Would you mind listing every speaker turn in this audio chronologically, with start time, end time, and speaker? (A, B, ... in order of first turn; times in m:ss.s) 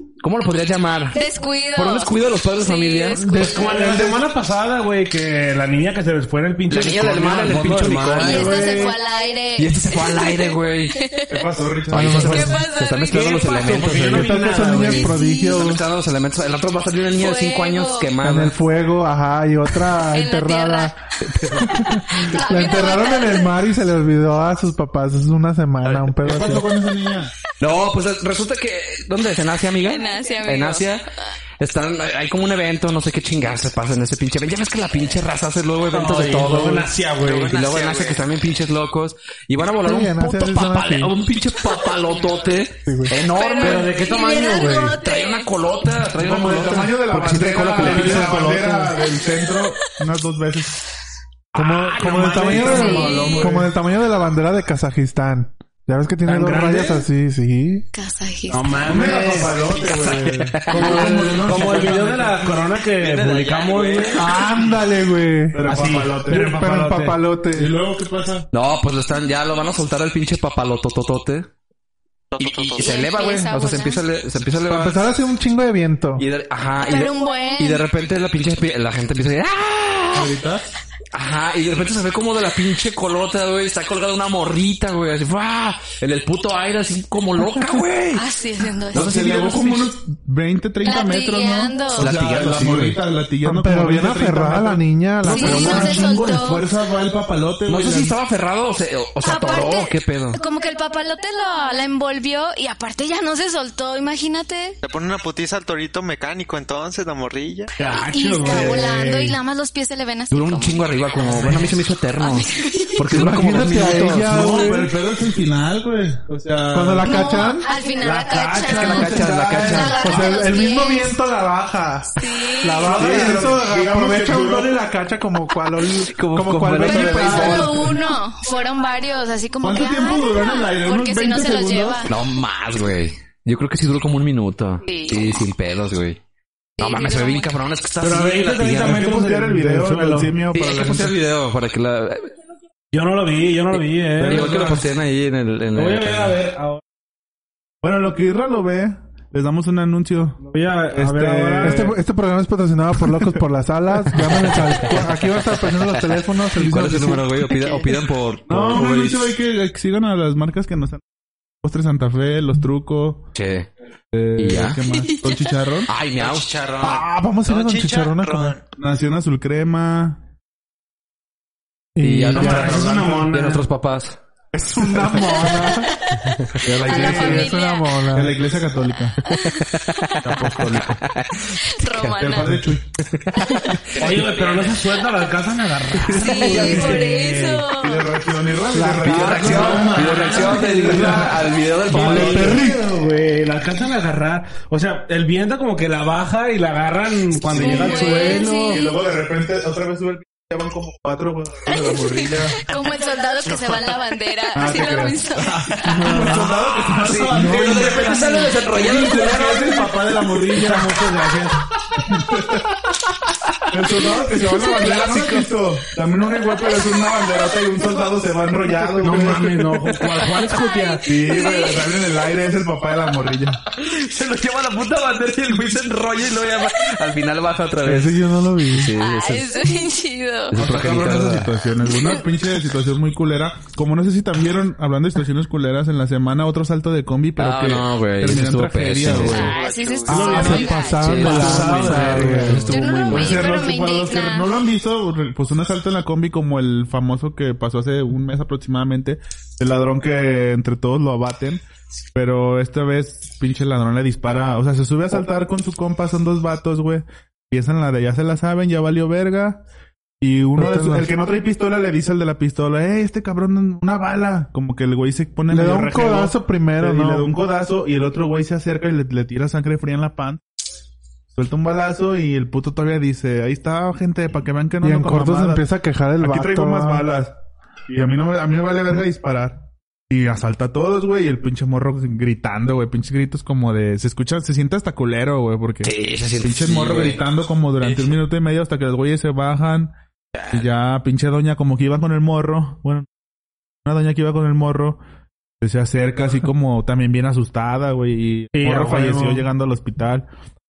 0:00.2-0:01.2 A
0:01.1-0:03.5 B
0:01.8-0:03.6 A
0:03.2-0:03.6 C
0:03.2-0:09.0 D
0:06.7-0:08.9 A
0:08.2-0:11.4 B
0:09.6-0:11.0 A
0:11.3-0:12.6 E
0:11.9-0:12.6 C
0:11.9-0:18.6 A
0:12.2-0:15.6 B
0:13.6-0:15.2 D
0:14.0-0:15.8 C
0:17.2-0:18.1 B
0:18.2-0:21.0 C
0:20.1-0:21.0 B
0:21.2-0:21.7 A
0:21.6-0:26.7 C
0:22.1-0:23.5 B
0:25.9-0:27.3 E
0:27.6-0:31.0 A
0:29.8-0:31.0 B
0:31.6-0:43.9 A
0:35.9-0:37.6 D
0:37.2-0:38.2 F
0:39.8-0:41.2 C
0:42.8-0:43.1 C
0:43.3-0:45.9 B
0:43.6-0:45.0 D
0:44.9-0:48.9 A
0:46.2-0:50.8 E
0:47.8-0:48.6 C
0:51.5-0:57.9 C
0:51.6-0:53.3 D
0:52.0-0:53.7 E
0:52.7-0:53.4 B
0:56.2-0:57.0 D
0:57.9-0:59.1 B
0:58.5-0:59.7 D
0:58.8-1:02.5 E
0:59.7-1:01.0 A
1:00.6-1:04.3 D
1:03.0-1:04.2 A
1:03.1-1:04.2 F
1:04.2-1:07.7 C
1:05.5-1:08.5 E
1:05.7-1:06.2 D
1:08.5-1:11.5 A
1:12.3-1:13.0 F
1:12.4-1:15.0 A
1:12.8-1:14.0 B
1:14.7-1:16.2 C
1:16.2-1:20.3 A
1:16.8-1:17.8 B
1:20.1-1:20.7 E
1:21.1-1:28.2 A
1:28.2-1:29.1 B
1:28.9-1:29.9 A
1:28.9-1:38.2 E
1:30.8-1:32.1 B
1:32.0-1:33.0 A
1:33.4-1:36.3 C
1:35.2-1:36.7 B
1:37.7-1:40.4 A
1:39.2-1:44.8 B
1:44.8-1:47.7 F
1:47.8-1:49.4 D
1:48.0-1:50.8 B
1:50.3-1:54.5 A
1:52.2-1:53.0 B
1:53.1-1:54.9 C
1:54.2-1:57.5 E
1:56.7-1:57.7 C
1:57.0-2:01.1 B
1:58.0-1:59.1 D
1:58.7-2:00.2 A
1:58.7-2:08.0 C
1:59.2-2:00.1 E
2:02.2-2:03.4 B
2:02.9-2:04.7 E
2:06.1-2:07.9 A
2:06.8-2:07.8 E
2:07.1-2:12.1 B
2:09.6-2:12.1 E
2:12.1-2:16.2 A
2:14.9-2:15.4 B
2:16.8-2:17.5 B
2:16.8-2:19.1 A
2:18.0-2:20.4 D
2:18.8-2:21.2 E
2:20.5-2:22.3 A
2:22.9-2:24.8 D
2:23.7-2:26.4 A
2:24.2-2:24.8 E
2:25.8-2:26.8 D
2:27.8-2:31.9 E
2:30.4-2:31.9 D
2:31.6-2:37.5 C
2:35.9-2:39.3 A
2:38.5-2:41.0 E
2:41.6-2:43.3 E
2:43.3-2:43.7 A
2:44.1-2:45.9 E
2:44.4-2:44.8 A
2:44.9-2:45.4 B
2:45.9-2:46.5 A
2:46.2-2:48.6 F
2:46.8-2:48.6 C
2:48.8-2:50.2 E
2:52.0-2:53.2 C
2:52.0-2:54.2 A
2:52.3-2:53.7 D
2:54.5-2:56.0 C
2:55.9-2:56.2 B
2:56.6-2:57.5 E
2:56.8-2:58.0 B
2:56.8-2:58.4 C
2:58.1-2:59.2 E
2:59.2-3:00.3 B
2:59.3-3:04.6 A
3:00.2-3:01.0 E
3:01.7-3:02.6 B
3:02.2-3:02.9 E
3:03.4-3:03.8 B
3:04.0-3:07.7 D
3:04.0-3:04.7 F
3:06.1-3:08.2 B
3:06.4-3:07.0 A
3:07.7-3:11.4 E
3:08.7-3:09.9 C
3:09.0-3:12.7 A
3:09.3-3:18.8 D
3:10.2-3:11.1 B
3:11.9-3:12.9 C
3:17.5-3:22.6 E
3:17.6-3:18.9 B
3:21.7-3:26.3 B
3:24.5-3:31.1 E
3:26.0-3:26.4 D
3:26.9-3:30.2 A
3:30.5-3:31.6 D
3:32.0-3:32.7 E
3:33.7-3:39.8 E
3:34.5-3:35.1 B
3:39.0-3:41.1 D
3:40.4-3:42.0 B
3:41.0-3:43.6 E
3:43.7-3:48.2 A
3:47.8-3:48.9 C
3:48.7-3:49.5 A
3:49.0-3:50.6 B
3:50.5-3:51.5 A
3:50.5-4:00.8 E
3:57.4-3:59.6 A
3:59.1-4:01.0 F
3:59.3-4:01.2 B
4:00.1-4:02.8 C
4:00.4-4:03.5 A
4:00.4-4:02.8 D
4:02.7-4:04.6 B
4:03.1-4:11.6 E
4:12.1-4:19.6 E
4:20.2-4:30.4 E
4:20.6-4:21.1 C
4:25.5-4:27.3 C
4:31.3-4:35.6 E
4:34.8-4:37.1 C
4:36.2-4:37.3 E
4:37.9-4:50.0 E
4:45.8-4:47.2 A
4:47.8-4:48.1 F
4:50.5-4:53.1 E
4:53.8-4:55.0 E
4:55.6-5:00.3 E
4:58.5-4:59.5 D